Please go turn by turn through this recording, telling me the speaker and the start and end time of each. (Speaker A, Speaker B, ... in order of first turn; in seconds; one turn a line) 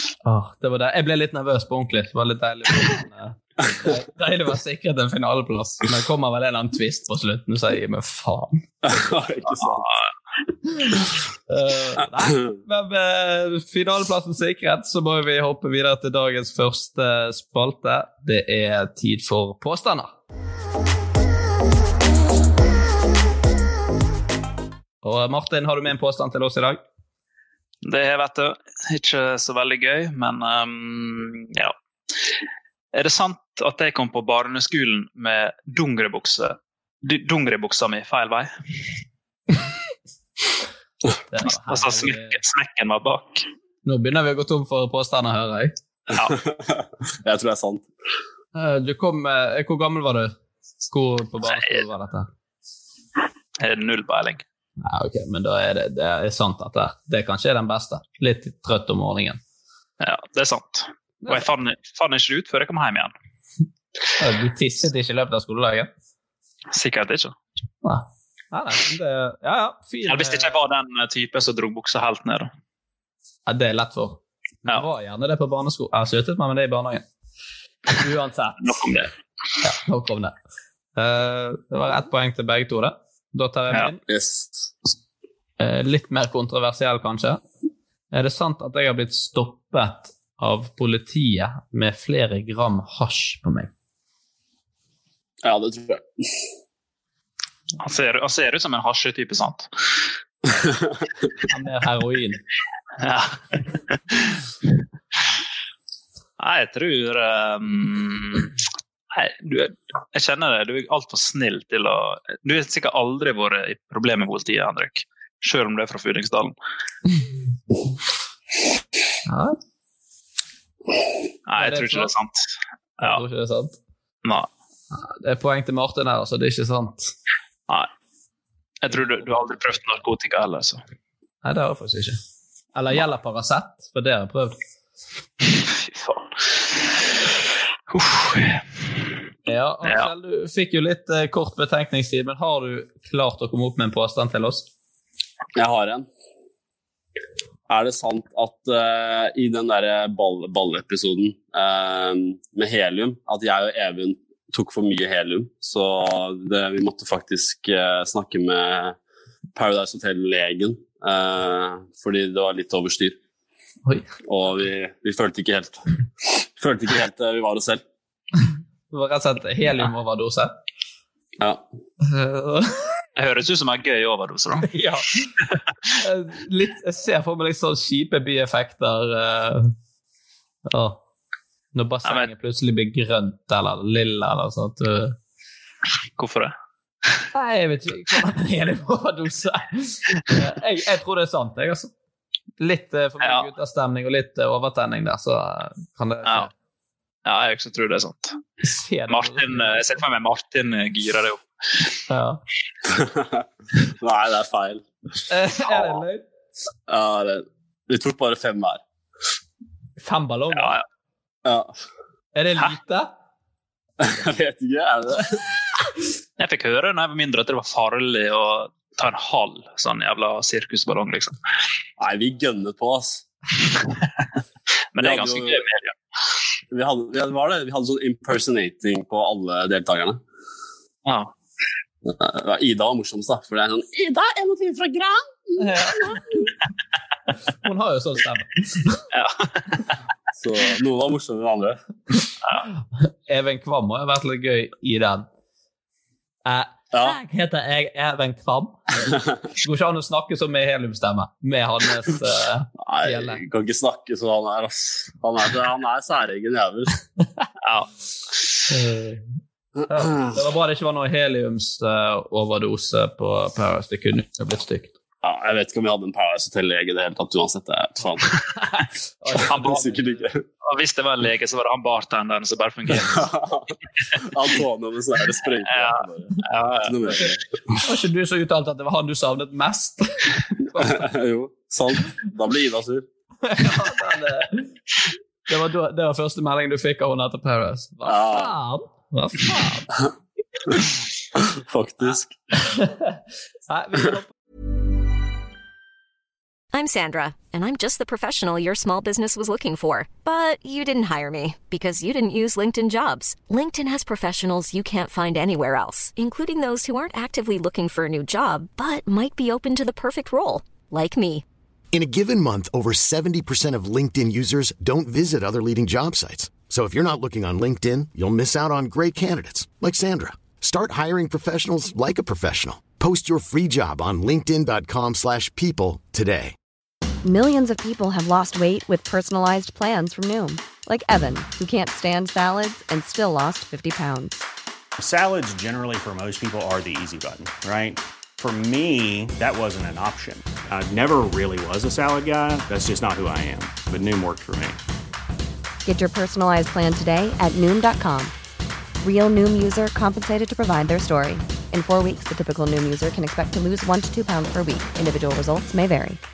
Speaker A: 0.2-8.6
Speaker B: 8.8-9.9
Speaker A: 10.7-20.1
Speaker A: 25.0-26.8
Speaker C: 27.8-31.8
Speaker C: 32.9-38.5
Speaker A: 41.3-42.4
Speaker C: 41.7-43.5
Speaker A: 43.9-45.8
Speaker B: 46.1-47.9
Speaker A: 48.5-50.3
Speaker A: 50.9-52.3
Speaker C: 53.6-54.4
Speaker A: 54.8-59.4
Speaker C: 60.0-63.1
Speaker A: 61.2-61.5
Speaker A: 64.2-65.9
Speaker C: 66.7-67.3
Speaker A: 67.8-70.6
Speaker C: 70.1-72.5
Speaker A: 73.5-77.0
Speaker A: 78.0-78.7
Speaker C: 78.6-79.1
Speaker A: 79.6-80.3
Speaker A: 81.0-84.0
Speaker B: 84.1-84.7
Speaker A: 85.6-87.4
Speaker A: 88.1-93.7
Speaker B: 95.4-96.2
Speaker C: 97.8-99.7
Speaker B: 100.6-100.9
Speaker A: 101.5-102.4
Speaker C: 103.0-104.4
Speaker C: 106.4-108.5
Speaker C: 109.1-116.5
Speaker A: 119.3-119.6
Speaker C: 121.5-122.5
Speaker A: 121.6-122.1
Speaker A: 123.0-123.8
Speaker C: 124.2-124.5
Speaker A: 124.9-127.1
Speaker C: 128.8-130.8
Speaker A: 131.4-132.2
Speaker A: 132.8-134.6
Speaker C: 135.5-136.3
Speaker C: 137.9-138.6
Speaker A: 139.5-144.7
Speaker B: 145.6-146.1
Speaker B: 147.7-159.0
Speaker B: 159.6-163.2
Speaker B: 164.3-167.8
Speaker A: 168.9-170.5
Speaker A: 172.0-172.8
Speaker C: 173.2-174.7
Speaker A: 174.7-175.2
Speaker A: 176.0-179.7
Speaker A: 180.7-181.0
Speaker A: 181.7-185.2
Speaker C: 186.2-186.5
Speaker A: 187.3-191.9
Speaker A: 192.6-196.5
Speaker C: 197.2-198.4
Speaker A: 198.6-199.8
Speaker C: 199.1-201.8
Speaker A: 202.1-202.4
Speaker B: 202.9-204.9
Speaker A: 205.3-206.2
Speaker B: 205.7-206.0
Speaker B: 206.9-208.8
Speaker A: 210.0-210.8
Speaker C: 210.6-210.8
Speaker B: 211.4-211.7
Speaker A: 212.3-213.1
Speaker B: 214.0-215.4
Speaker C: 216.4-221.4
Speaker B: 222.0-223.2
Speaker C: 224.9-225.9
Speaker B: 225.0-225.6
Speaker B: 226.7-230.2
Speaker C: 231.1-231.3
Speaker B: 232.1-236.2
Speaker A: 235.6-236.5
Speaker A: 237.6-239.0
Speaker C: 239.1-239.9
Speaker B: 240.4-241.8
Speaker A: 243.0-245.3
Speaker A: 246.4-253.4
Speaker B: 252.8-257.0
Speaker C: 257.6-258.5
Speaker A: 258.7-259.2
Speaker A: 259.9-264.9
Speaker B: 265.2-268.4
Speaker A: 268.6-270.2
Speaker B: 269.5-270.4
Speaker C: 270.6-273.3
Speaker B: 273.0-277.8
Speaker C: 275.7-277.3
Speaker A: 277.8-281.0
Speaker B: 280.8-283.1
Speaker A: 283.4-284.7
Speaker A: 285.5-289.9
Speaker B: 288.1-288.5
Speaker B: 291.4-292.3
Speaker A: 292.6-294.3
Speaker D: 296.7-311.4
Speaker E: 311.9-326.6
Speaker F: 327.2-334.4
Speaker G: 335.0-344.8
Speaker F: 345.9-348.3
Speaker F: 349.0-356.2